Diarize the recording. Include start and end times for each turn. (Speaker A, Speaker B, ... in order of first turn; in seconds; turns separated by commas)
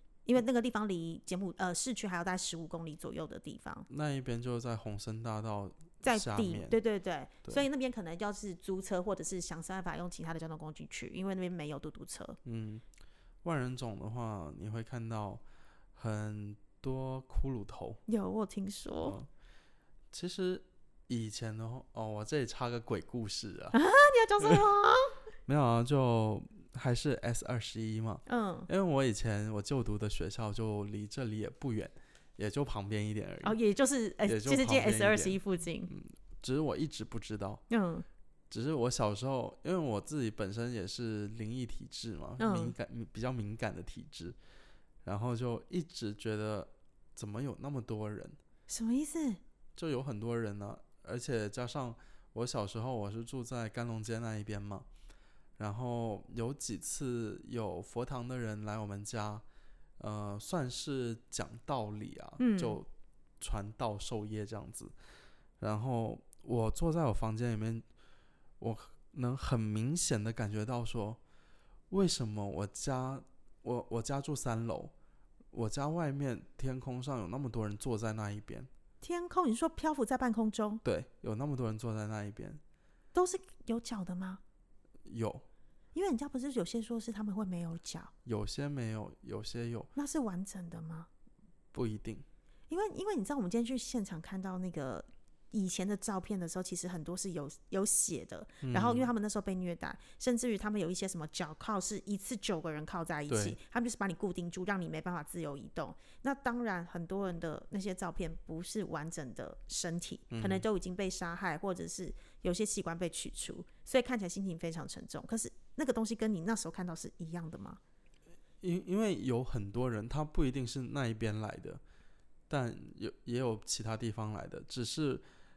Speaker A: 0.3-3.9, Speaker B: 3.9-6.8, Speaker A: 6.0-12.4, Speaker B: 12.4-12.8, Speaker B: 13.4-15.4, Speaker B: 16.0-18.0, Speaker A: 18.1-19.2, Speaker B: 20.1-23.8, Speaker A: 23.7-25.2, Speaker B: 25.5-33.6, Speaker A: 28.3-28.7, Speaker A: 33.4-35.9, Speaker B: 34.2-37.6, Speaker A: 37.7-38.0, Speaker B: 38.5-44.4, Speaker A: 42.4-42.8, Speaker B: 45.0-48.4, Speaker A: 48.7-49.4, Speaker B: 49.8-54.9, Speaker B: 55.6-59.4, Speaker B: 60.0-62.9, Speaker A: 62.4-62.8, Speaker B: 63.4-64.9, Speaker B: 65.6-67.8, Speaker B: 68.6-71.2, Speaker B: 71.9-74.9, Speaker B: 75.5-78.7, Speaker A: 79.0-80.8, Speaker B: 80.8-82.6, Speaker A: 83.1-84.4, Speaker B: 85.1-85.5, Speaker A: 85.9-88.1, Speaker B: 88.2-89.9, Speaker A: 90.0-91.1, Speaker B: 91.7-92.2, Speaker A: 92.7-117.8, Speaker B: 98.6-99.1, Speaker B: 103.3-103.6, Speaker B: 110.3-110.6, Speaker B: 118.6-121.8, Speaker B: 122.5-125.2